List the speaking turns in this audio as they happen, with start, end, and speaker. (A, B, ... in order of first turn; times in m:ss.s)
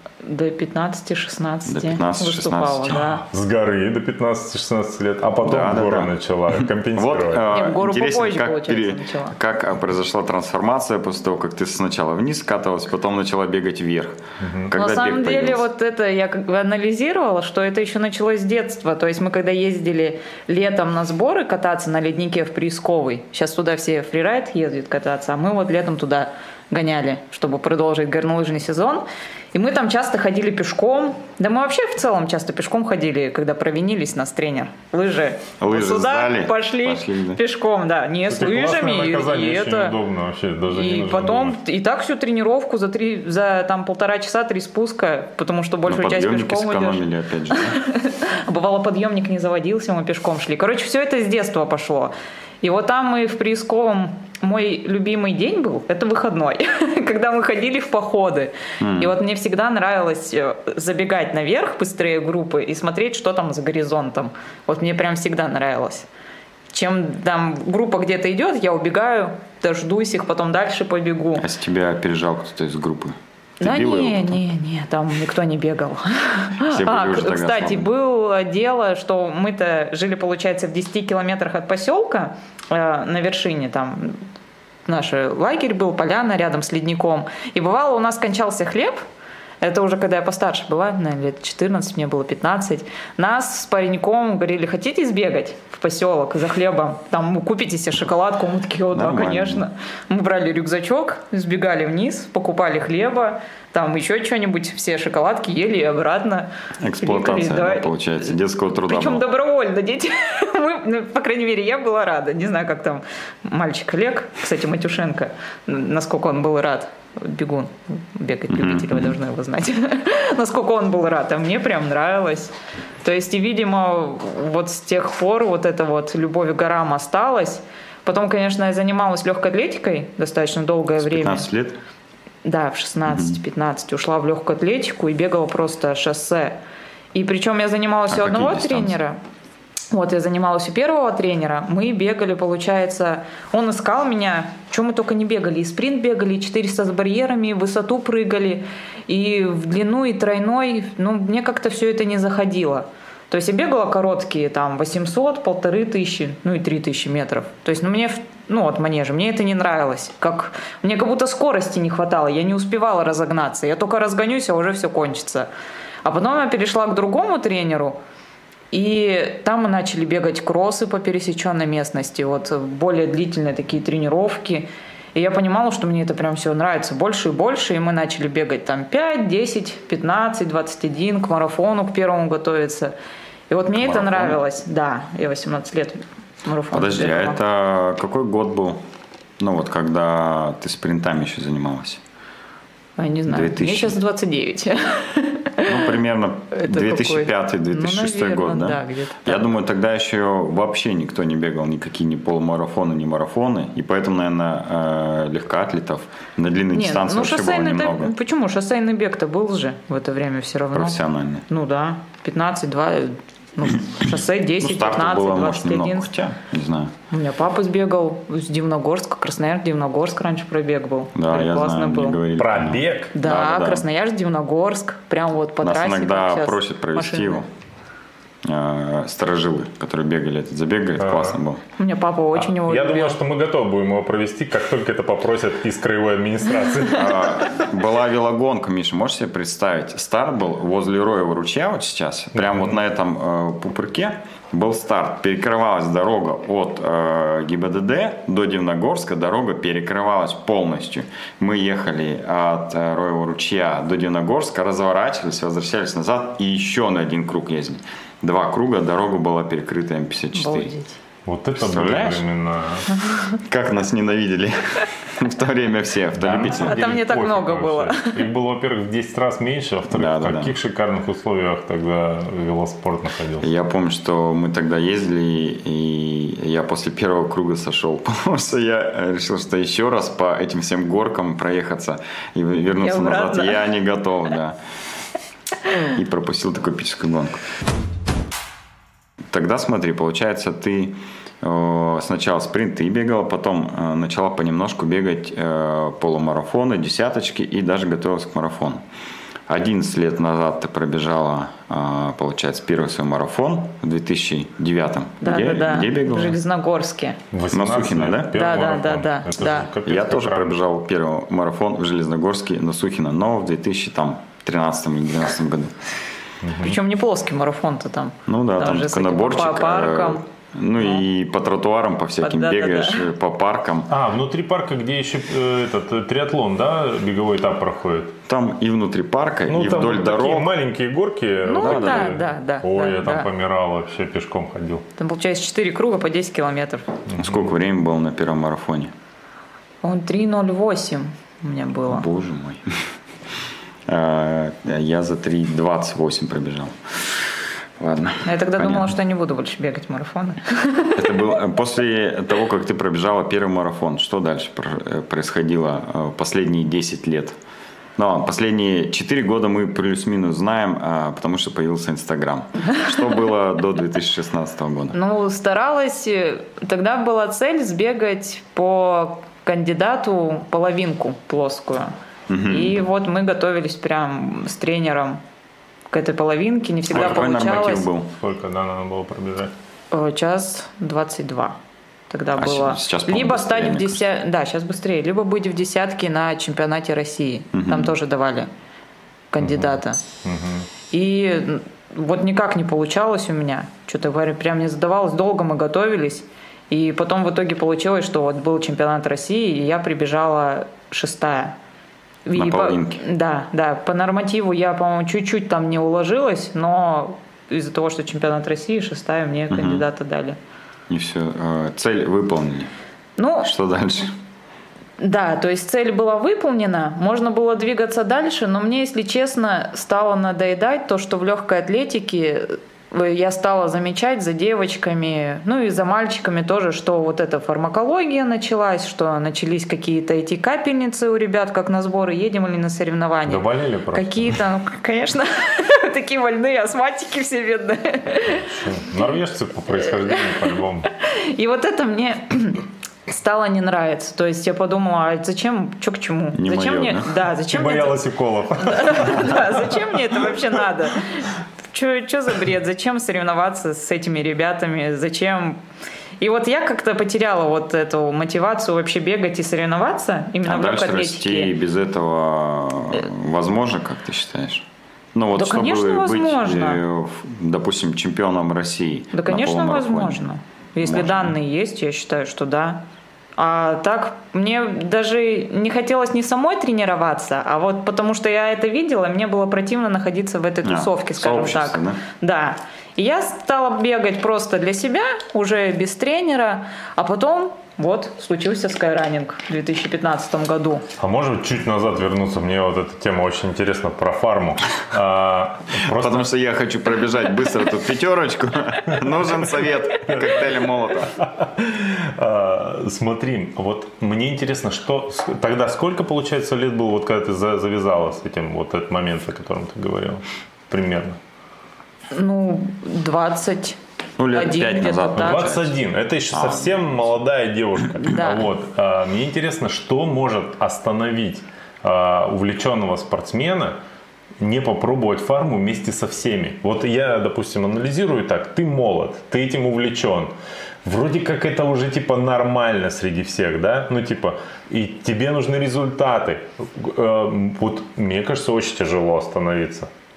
0:00.2-0:03.2 A
0:01.6-0:03.0 B
0:02.9-0:07.6 C
0:05.4-0:15.6 B
0:07.5-0:09.3 A
0:14.4-0:14.7 C
0:14.7-0:39.9 A
0:35.6-0:37.4 B
0:38.3-0:41.6 C
0:40.7-1:06.1 A
0:45.8-0:47.8 B
0:58.8-0:59.1 B
1:06.7-1:11.4 A
1:11.4-1:14.4 B
1:13.6-1:24.2 A
1:16.6-1:17.9 B
1:24.9-1:29.0 A
1:29.6-1:46.5 A
1:38.9-1:39.6 B
1:46.8-1:49.2 B
1:47.0-1:47.9 A
1:48.8-2:11.5 A
1:58.5-1:59.1 B
2:11.0-2:11.8 B
2:12.4-2:16.6 A
2:13.1-2:13.4 B
2:17.1-2:19.2 A
2:18.1-2:18.9 B
2:19.9-2:45.5 A
2:46.0-2:48.0 A
2:48.7-3:02.9 A
3:03.5-3:07.4 A
3:03.8-3:04.4 B
3:06.7-3:08.8 B
3:09.4-3:12.0 B
3:13.0-3:15.9 A
3:13.3-3:14.0 B
3:15.6-3:28.1 B
3:16.5-3:19.5 A
3:26.7-3:31.0 A
3:30.7-3:31.4 B
3:31.5-3:36.1 A
3:34.6-3:36.9 B
3:37.1-3:42.2 A
3:41.1-3:43.8 B
3:42.4-3:43.1 C
3:43.1-3:47.4 A
3:45.6-3:47.4 B
3:48.4-3:51.6 B
3:51.0-3:51.4 C
3:51.8-3:53.2 A
3:52.3-3:57.6 C
3:56.9-4:20.7 B
4:02.4-4:02.7 C
4:20.3-4:21.0 A
4:21.2-4:22.9 C
4:21.6-4:22.2 B
4:23.3-4:26.7 B
4:26.2-4:33.5 C
4:26.4-4:28.2 A
4:29.9-4:30.5 B
4:33.4-4:44.6 B
4:42.8-4:43.6 A
4:45.9-4:47.4 B
4:49.3-4:58.8 B
4:59.5-5:06.4 B
5:05.2-5:07.2 A
5:07.3-5:10.6 C
5:07.5-5:08.4 B
5:08.3-5:09.7 A
5:09.8-5:15.8 B
5:16.4-5:16.8 C
5:16.6-5:20.2 A
5:18.3-5:23.9 B
5:22.2-5:23.1 A
5:23.9-5:28.2 C
5:28.3-5:30.5 B
5:29.5-5:34.8 C
5:31.4-5:33.3 A
5:31.6-5:32.2 B
5:35.0-5:37.0 A
5:37.1-5:37.4 C
5:37.2-5:38.9 B
5:39.8-5:42.0 A
5:41.9-5:42.8 B
5:43.9-5:47.2 B
5:47.8-5:48.9 B
5:48.2-5:51.0 A
5:51.0-5:57.4 B
5:58.0-6:05.0 B
6:04.9-6:11.9 A
6:12.3-6:12.8 B
6:12.4-6:15.2 A
6:15.9-6:17.9 A
6:16.9-6:18.1 B
6:17.0-6:17.5 C
6:18.1-6:19.5 C
6:19.9-6:21.6 A
6:22.1-6:28.5 A
6:22.4-6:24.0 B
6:27.5-6:27.9 B
6:29.3-6:30.0 A
6:29.4-6:30.7 C
6:30.9-6:41.5 A
6:42.2-6:50.4 A
6:42.3-6:43.0 B
6:49.5-6:49.8 B
6:50.9-6:52.7 B
6:53.2-6:53.5 A
6:53.4-6:54.1 B
6:55.0-7:18.5 A
7:13.3-7:14.3 C
7:18.5-7:20.9 C
7:21.0-7:28.0 A
7:26.3-7:27.1 B
7:27.5-7:30.4 C
7:28.6-7:35.6 A
7:36.2-7:41.5 A
7:40.4-7:50.2 B
7:45.3-7:46.8 A
7:49.1-7:52.8 A
7:50.8-7:51.3 B
7:53.4-8:10.8 A
8:00.6-8:02.0 B
8:11.0-8:16.3 C
8:15.8-8:21.1 B
8:19.0-8:20.6 C
8:21.2-8:31.2 C
8:32.1-8:33.8 A
8:34.2-8:35.8 B
8:34.3-8:35.6 A
8:35.2-8:43.8 C
8:36.3-8:37.0 B
8:38.0-8:38.5 A
8:44.4-8:50.3 C
8:50.8-8:59.9 C